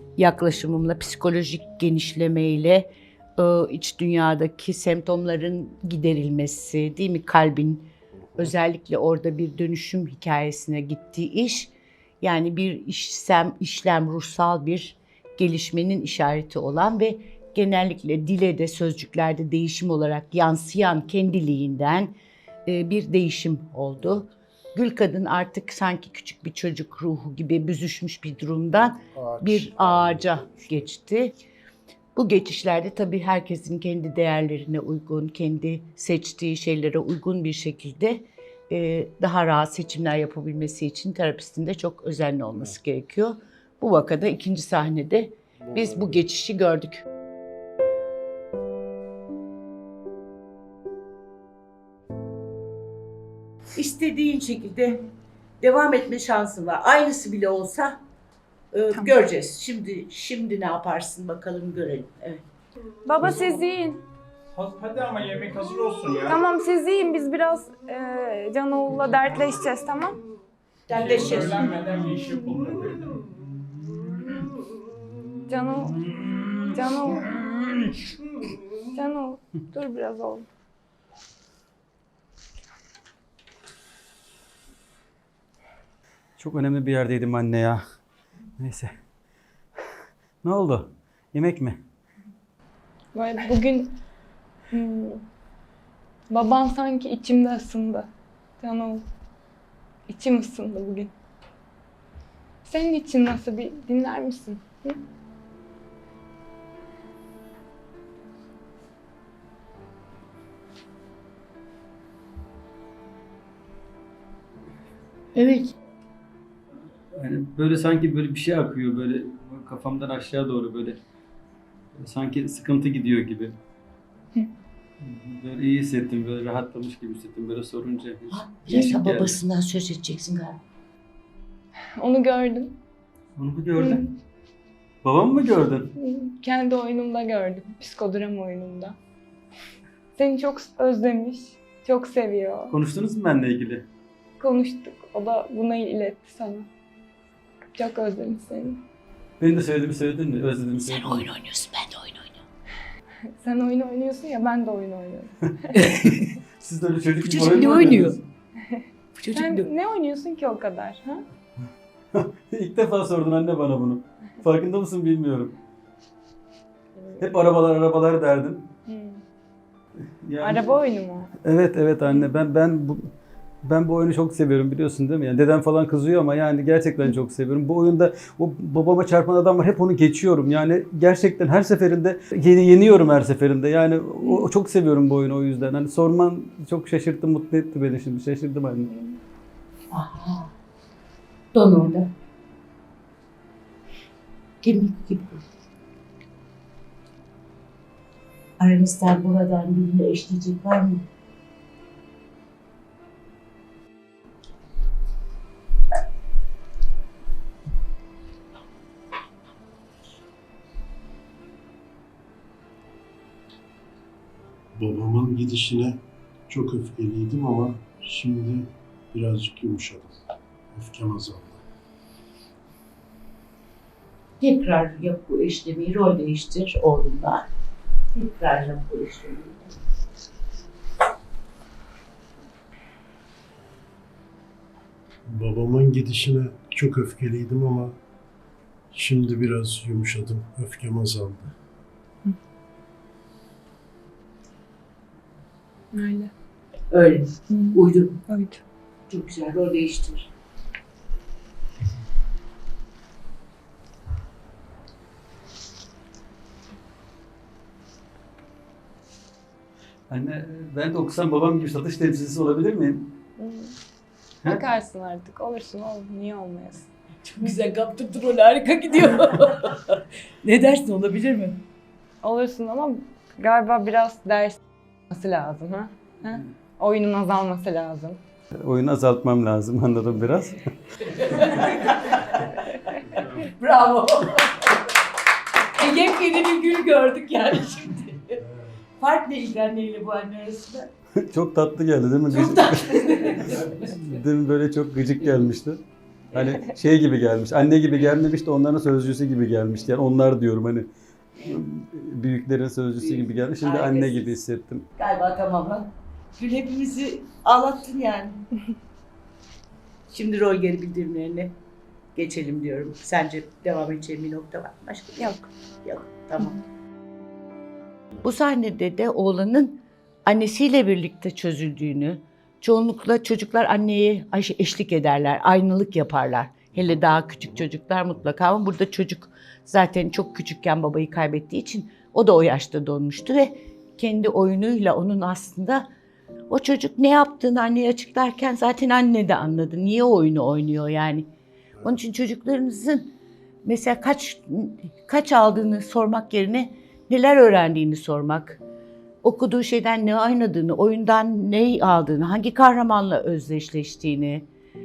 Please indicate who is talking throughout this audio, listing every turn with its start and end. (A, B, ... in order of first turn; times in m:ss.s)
0:00.2-0:22.1 A
0:22.7-0:31.3 A
0:29.0-0:30.9 B
0:32.2-0:47.0 A
0:42.5-0:42.8 B
0:45.6-0:46.2 B
0:53.7-0:55.0 A
0:55.6-0:58.0 A
0:58.7-1:02.4 A
1:03.0-1:04.0 C
1:04.5-1:06.4 D
1:06.3-1:10.2 C
1:10.9-1:11.8 A
1:10.9-1:13.2 D
1:15.5-1:16.0 C
1:16.7-1:18.0 C
1:18.9-1:20.5 C
1:26.4-1:27.8 E
1:28.6-1:28.9 E
1:30.4-1:31.8 E
1:33.1-1:34.0 C
1:34.7-1:35.2 C
1:36.3-1:38.1 C
1:38.6-1:39.0 C
1:40.1-1:41.1 C
1:42.6-1:45.0 C
1:55.3-1:55.7 A
1:57.2-2:01.0 E
2:02.0-2:03.5 E
2:05.0-2:09.4 E
2:08.3-2:10.6 A
2:12.0-2:12.7 C
2:13.4-2:14.0 E
2:13.8-2:14.1 C
2:15.0-2:15.9 E
2:16.0-2:19.0 C
2:20.1-2:22.8 C
2:22.7-2:23.8 E
2:24.4-2:26.7 C
2:27.8-2:28.8 C
2:29.4-2:31.3 E
2:30.8-2:32.4 A
2:33.4-2:35.3 C
2:35.7-2:36.3 A
2:36.5-2:38.2 E
2:37.2-2:38.1 A
2:38.7-2:41.2 C
2:39.2-2:39.7 A
2:42.1-2:45.5 E
2:47.0-2:47.3 C
2:47.2-2:48.7 E
2:48.9-2:49.2 C
2:50.0-2:50.8 E
2:50.4-2:51.3 C
2:51.4-2:53.0 E
2:53.6-3:08.9 E
3:08.9-3:09.2 C
3:09.9-3:10.5 A
3:11.5-3:12.1 A
3:14.6-3:15.4 A
3:18.6-3:21.0 A
3:34.8-3:36.0 B
3:36.5-3:40.2 B
3:40.7-3:41.6 B
3:44.4-3:47.5 A
3:48.2-3:49.7 A
3:55.2-3:58.0 B
3:58.9-4:01.5 B
4:05.9-4:06.3 C
4:06.9-4:08.2 A
4:07.5-4:08.6 C
4:09.1-4:10.3 A
4:20.1-4:23.1 E
4:23.4-4:23.7 C
4:24.4-4:26.9 C
4:27.2-4:31.6 A
4:32.2-4:34.6 C
4:35.1-4:38.2 C
4:38.6-4:40.6 E
4:41.0-4:44.9 A
4:43.0-4:43.5 E
4:45.6-4:48.4 A
4:48.4-4:48.8 B
4:49.0-4:50.9 A
4:51.2-4:55.8 E
4:52.3-4:53.9 A
4:56.3-5:00.9 E
5:01.4-5:04.8 E
5:03.0-5:04.3 A
5:05.0-5:08.4 A
5:10.1-5:11.5 A
5:12.2-5:16.6 A
5:18.2-5:35.9 A
5:36.5-5:41.3 A
5:41.8-5:48.6 A
5:49.2-5:54.5 A